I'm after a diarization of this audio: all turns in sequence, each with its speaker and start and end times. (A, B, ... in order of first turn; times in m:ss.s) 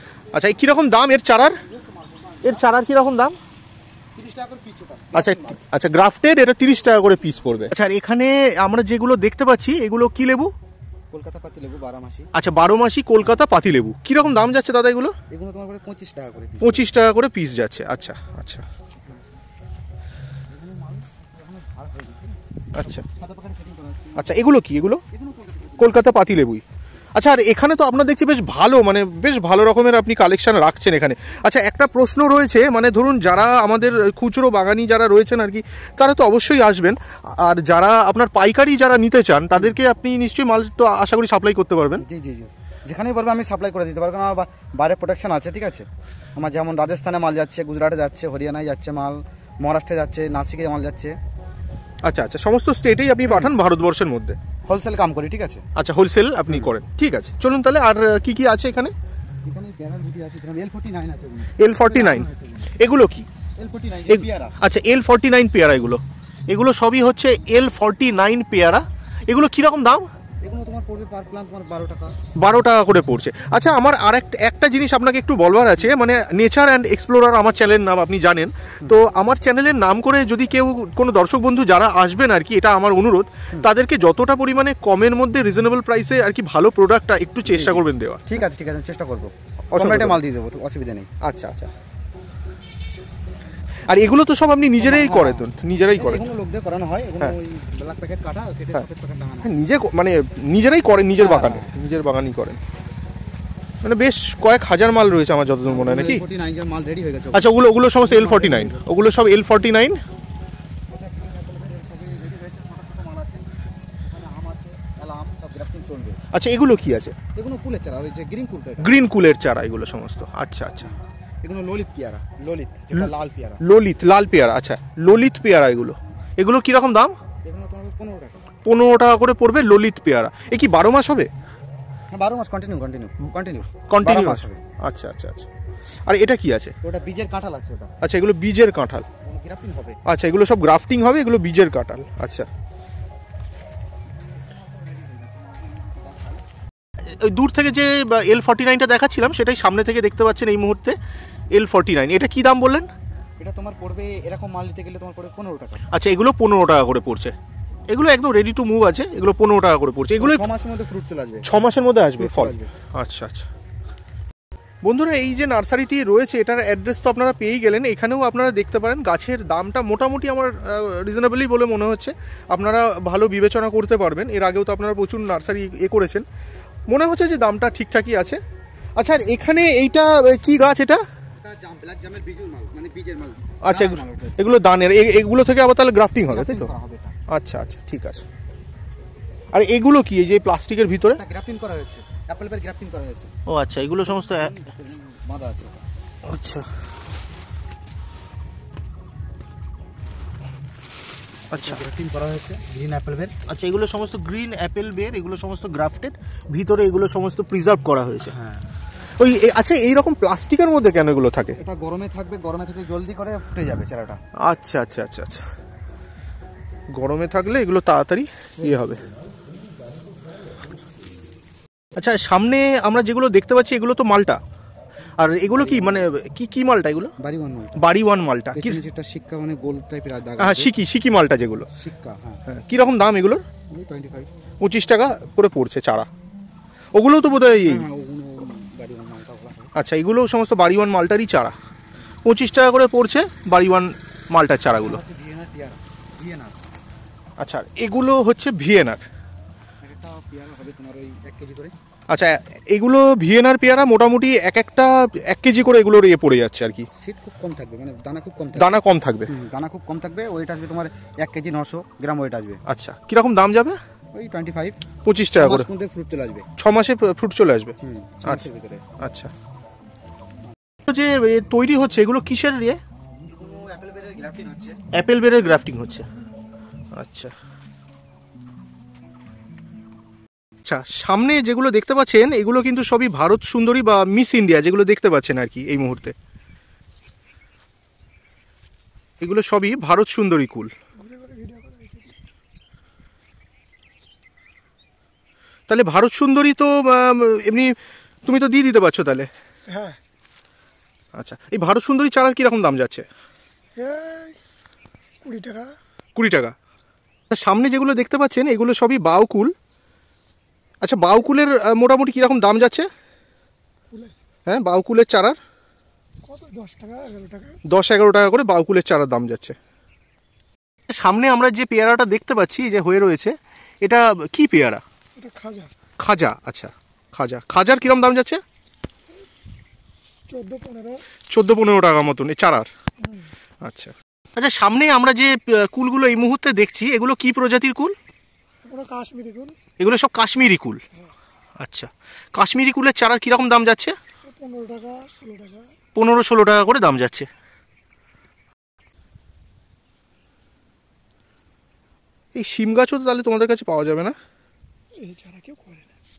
0:00.3-0:01.6 A
0:01.6-0:02.8 B
0:02.4-0:03.4 A
0:04.2-0:05.6 B
0:05.1-0:10.5 A
0:11.1-0:12.3 B
0:12.3-0:15.2 A
0:15.3-0:16.9 B
0:16.6-0:18.6 A
0:20.5-0:24.4 B
0:22.7-0:23.0 A
0:24.2-0:25.0 A
0:25.1-0:26.1 B
0:25.8-0:26.6 A
0:27.1-0:42.0 A
0:42.0-0:51.2 B
0:52.0-0:54.4 A
0:53.3-0:53.5 B
0:54.7-0:55.6 B
0:55.8-0:58.9 A
0:59.4-1:02.7 B
1:01.6-1:02.3 A
1:02.8-1:03.3 A
1:03.6-1:04.6 B
1:04.1-1:10.1 A
1:10.4-1:12.1 B
1:12.4-1:28.2 A
1:27.4-1:31.1 B
1:29.7-1:30.2 A
1:31.2-1:31.7 A
1:33.9-1:36.3 A
1:34.8-1:39.5 B
1:39.4-1:42.6 A
1:41.2-1:41.7 B
1:43.8-1:46.2 A
1:45.6-1:48.8 B
1:47.3-1:50.0 A
1:50.9-1:56.2 B
1:56.3-1:57.2 A
1:57.3-1:59.0 B
1:58.8-2:00.9 A
2:01.4-2:03.6 B
2:02.9-2:07.1 A
2:07.4-2:08.4 B
2:08.6-2:11.3 A
2:12.1-2:14.6 B
2:13.9-2:15.5 A
2:16.0-2:16.7 A
2:16.8-2:17.9 B
2:18.0-2:19.1 A
2:19.2-2:20.0 B
2:20.0-2:22.5 A
2:24.3-2:26.4 B
2:27.0-2:31.0 A
2:31.5-2:32.9 A
2:33.4-2:35.8 B
2:35.9-2:37.3 A
2:37.9-2:40.4 A
2:40.2-2:41.5 B
2:41.4-2:43.4 A
2:42.2-2:42.7 B
2:44.8-2:56.2 A
2:56.9-2:58.4 A
2:59.0-3:01.0 A
3:01.4-3:04.4 B
3:03.6-3:06.7 A
3:06.3-3:07.1 B
3:07.3-3:08.2 A
3:09.5-3:11.2 A
3:11.1-3:13.3 B
3:13.5-3:14.5 A
3:14.0-3:15.8 B
3:16.2-3:16.7 A
3:21.5-3:21.8 A
3:21.5-3:23.4 B
3:23.4-3:28.3 A
3:28.3-3:28.6 B
3:29.2-3:31.6 A
3:31.6-3:34.2 B
3:34.4-3:35.4 A
3:36.9-3:39.0 A
3:42.0-3:44.4 A
3:45.2-3:47.1 A
3:45.6-3:46.0 B
3:47.2-3:47.8 B
3:47.8-3:48.8 A
3:48.5-3:50.7 B
3:50.4-3:51.7 A
3:51.7-3:52.4 B
3:52.5-3:53.4 A
3:53.7-3:54.3 B
3:54.6-3:56.1 A
3:56.9-3:57.8 A
3:57.6-3:59.7 B
3:59.7-4:01.6 A
4:02.2-4:05.0 A
4:04.7-4:06.6 B
4:07.4-4:09.0 A
4:09.8-4:11.7 B
4:12.1-4:16.9 A
4:16.9-4:22.6 B
4:18.6-4:19.3 A
4:22.6-4:23.8 A
4:24.1-4:24.8 B
4:25.0-4:25.7 A
4:25.3-4:26.4 B
4:26.6-4:28.5 A
4:27.8-4:28.8 B
4:29.0-4:29.3 A
4:30.8-4:32.8 A
4:33.3-4:34.8 B
4:34.9-4:36.1 A
4:36.9-4:37.3 A
4:40.6-4:46.1 A
4:49.2-4:50.7 A
4:51.3-4:51.7 C
4:55.7-4:59.3 A
5:01.1-5:03.1 A
5:03.8-5:04.4 C
5:05.2-5:05.7 C
5:06.1-5:06.5 A
5:07.3-5:09.5 A
5:10.8-5:12.9 A
5:14.4-5:15.4 A
5:16.3-5:17.5 C
5:17.6-5:19.6 A
5:20.9-5:24.8 A
5:25.2-5:25.7 C
5:26.0-5:28.4 A
5:30.3-5:31.0 C
5:31.3-5:32.7 A
5:33.6-5:38.0 A
5:38.7-5:39.6 C
5:39.8-5:40.8 A
5:41.6-5:44.0 A
5:44.3-5:45.6 C
5:45.9-5:47.3 A
5:52.3-5:54.2 A
5:55.0-5:55.8 C